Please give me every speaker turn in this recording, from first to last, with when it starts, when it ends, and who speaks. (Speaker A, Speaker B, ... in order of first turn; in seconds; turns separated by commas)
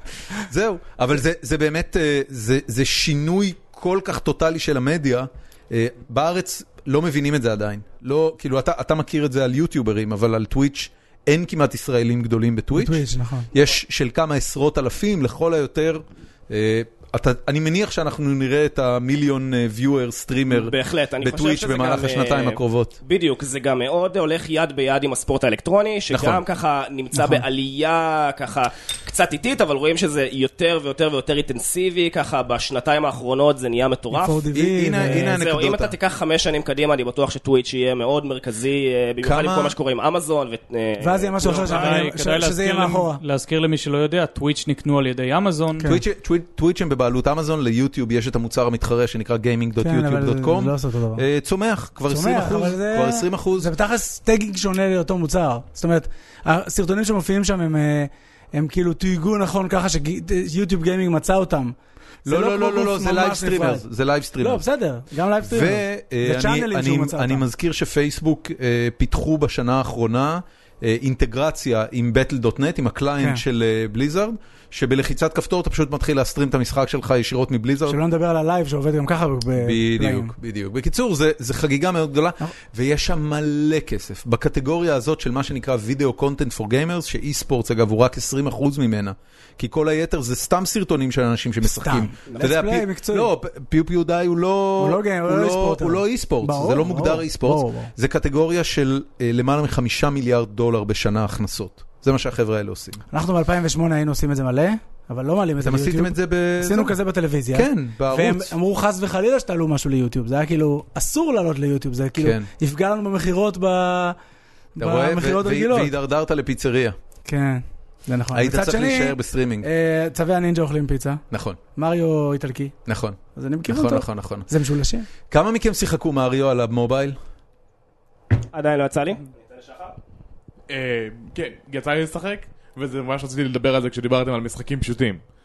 Speaker A: 0.3-23.0, Speaker B: 12.8-13.5, Speaker C: 20.5-42.0, Speaker A: 26.1-26.4, Speaker B: 27.1-27.4, Speaker B: 34.1-35.4, Speaker A: 34.5-36.0, Speaker A: 39.2-39.8, Speaker B: 41.0-43.2, Speaker D: 41.6-45.9, Speaker A: 45.8-53.7, Speaker B: 49.8-51.2, Speaker B: 52.1-63.8, Speaker A: 62.3-64.6, Speaker B: 64.4-67.4, Speaker A: 65.4-78.0, Speaker B: 77.9-80.3, Speaker A: 79.6-103.0, Speaker B: 91.6-93.3, Speaker B: 94.8-97.9, Speaker B: 103.1-114.2, Speaker A: 105.6-107.0, Speaker A: 107.5-108.5, Speaker A: 112.2-112.5, Speaker B: 114.8-115.9, Speaker A: 114.8-117.0, Speaker B: 117.2-121.2, Speaker A: 118.3-119.7, Speaker A: 121.3-121.6, Speaker B: 121.8-122.8, Speaker A: 122.9-124.5, Speaker B: 123.3-125.1, Speaker A: 125.3-127.2, Speaker C: 128.5-129.9, Speaker E: 130.7-135.2